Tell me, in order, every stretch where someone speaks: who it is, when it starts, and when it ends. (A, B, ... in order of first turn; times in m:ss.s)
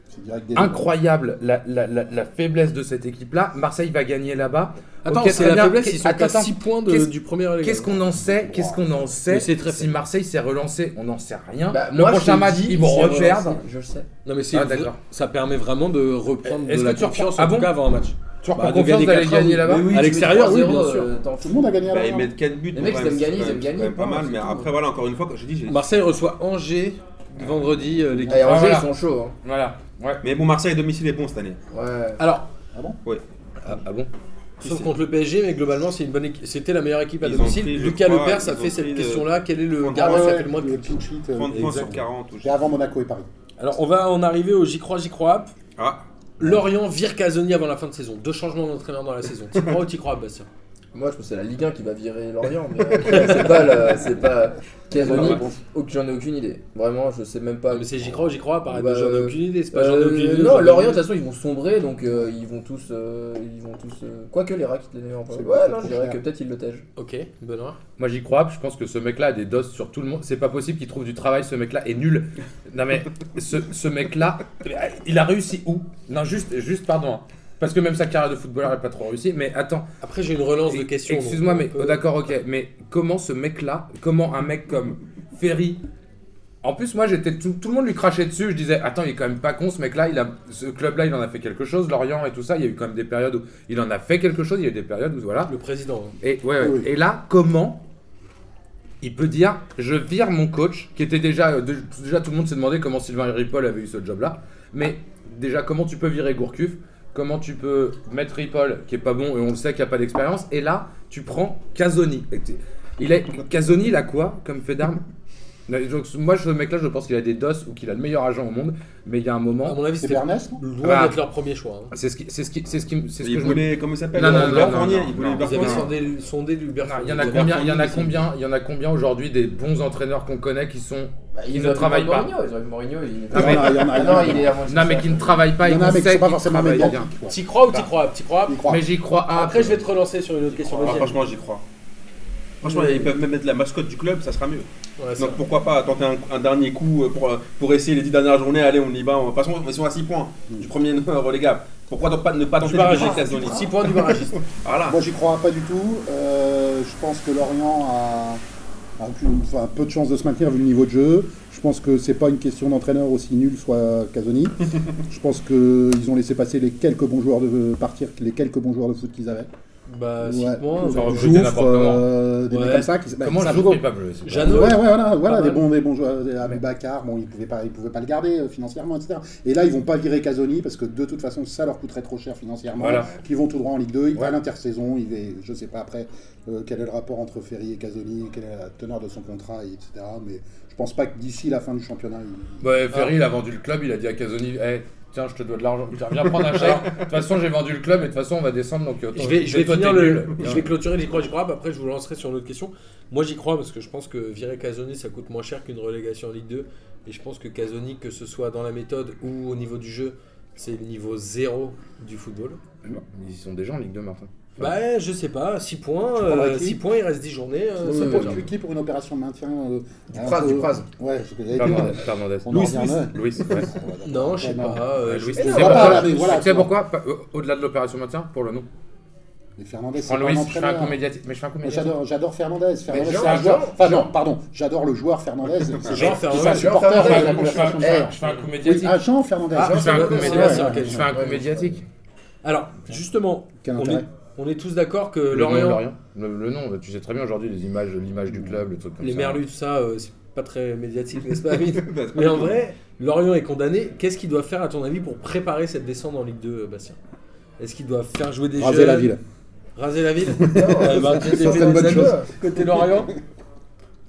0:00.1-0:00.9 A
0:00.6-0:13.6 B
0:05.0-0:08.0 C
0:08.2-0:08.8 A
0:09.3-0:09.9 C
0:11.7-0:14.1 D
0:14.2-0:21.1 C
0:14.5-0:15.0 B
0:16.4-0:17.7 B
0:18.4-0:20.2 B
0:19.6-0:22.2 D
0:21.4-0:22.3 A
0:21.9-0:25.8 E
0:22.7-0:24.7 D
0:25.7-0:28.7 C
0:28.1-0:28.6 A
0:28.3-0:29.4 D
0:28.4-0:28.9 B
0:29.4-0:30.2 B
0:30.2-0:31.6 E
0:31.7-0:32.2 D
0:32.2-0:32.5 C
0:33.6-0:34.1 B
0:34.6-0:34.9 E
0:34.6-0:41.0 C
0:37.2-0:40.4 E
0:40.0-0:43.3 A
0:41.4-0:42.6 E
0:41.5-0:42.0 C
0:43.6-0:45.5 C
0:45.8-0:46.0 E
0:46.4-0:50.5 C
0:50.9-1:06.8 D
0:54.9-0:55.6 A
0:57.7-1:01.0 C
1:05.3-1:06.2 A
1:07.0-1:07.8 C
1:08.0-1:19.9 B
1:20.0-1:22.0 C
1:20.7-1:25.8 B
1:26.6-1:35.5 B
1:35.5-1:36.2 C
1:36.2-1:37.8 B
1:36.6-1:36.9 A
1:39.0-1:55.0 B
1:55.7-1:59.8 B
1:59.6-2:01.9 C
2:00.0-2:00.6 A
2:00.8-2:01.2 B
2:01.9-2:05.9 B
2:03.2-2:05.9 E
2:04.2-2:04.8 C
2:05.4-2:08.2 C
2:06.8-2:12.3 B
2:11.4-2:15.4 D
2:13.3-2:14.6 A
2:13.3-2:17.1 B
2:15.5-2:17.4 A
2:17.3-2:18.7 C
2:18.5-2:18.8 A
2:18.6-2:19.8 B
2:19.3-2:21.2 C
2:20.8-2:21.6 E
2:22.6-2:35.0 E
2:22.6-2:23.0 D
2:25.0-2:25.4 C
2:32.6-2:34.4 C
2:32.8-2:33.7 A
2:34.9-2:38.4 A
2:39.0-2:49.5 A
2:49.9-2:51.5 C
2:50.2-3:12.6 A
2:50.9-2:52.1 B
2:52.5-2:52.9 C
2:53.2-2:54.8 B
2:54.2-2:55.6 C
3:02.8-3:03.1 B
3:12.6-3:20.7 B
3:19.2-3:32.6 C
3:32.8-3:34.7 B
3:34.6-3:38.5 C
3:36.2-3:36.8 A
3:37.8-3:38.4 D
3:37.8-3:46.7 A
3:40.1-3:40.9 D
3:41.5-3:43.7 B
3:44.0-3:46.2 C
3:45.0-3:48.7 B
3:45.4-3:46.2 D
3:49.6-3:51.0 A
3:50.0-3:52.0 B
3:51.6-4:01.2 A
3:52.9-3:53.8 D
3:53.0-3:54.1 B
3:55.8-3:56.9 C
3:56.0-3:58.2 D
3:56.4-3:59.0 B
3:59.6-4:01.1 C
3:59.6-4:01.7 D
3:59.7-4:01.8 B
4:02.4-4:05.8 C
4:03.6-4:04.1 A
4:05.3-4:09.4 B
4:09.0-4:17.0 C
4:11.6-4:12.6 E
4:17.6-4:19.2 C
4:18.6-4:19.2 A
4:19.8-4:23.1 C
4:20.5-4:22.2 A
4:20.5-4:22.3 D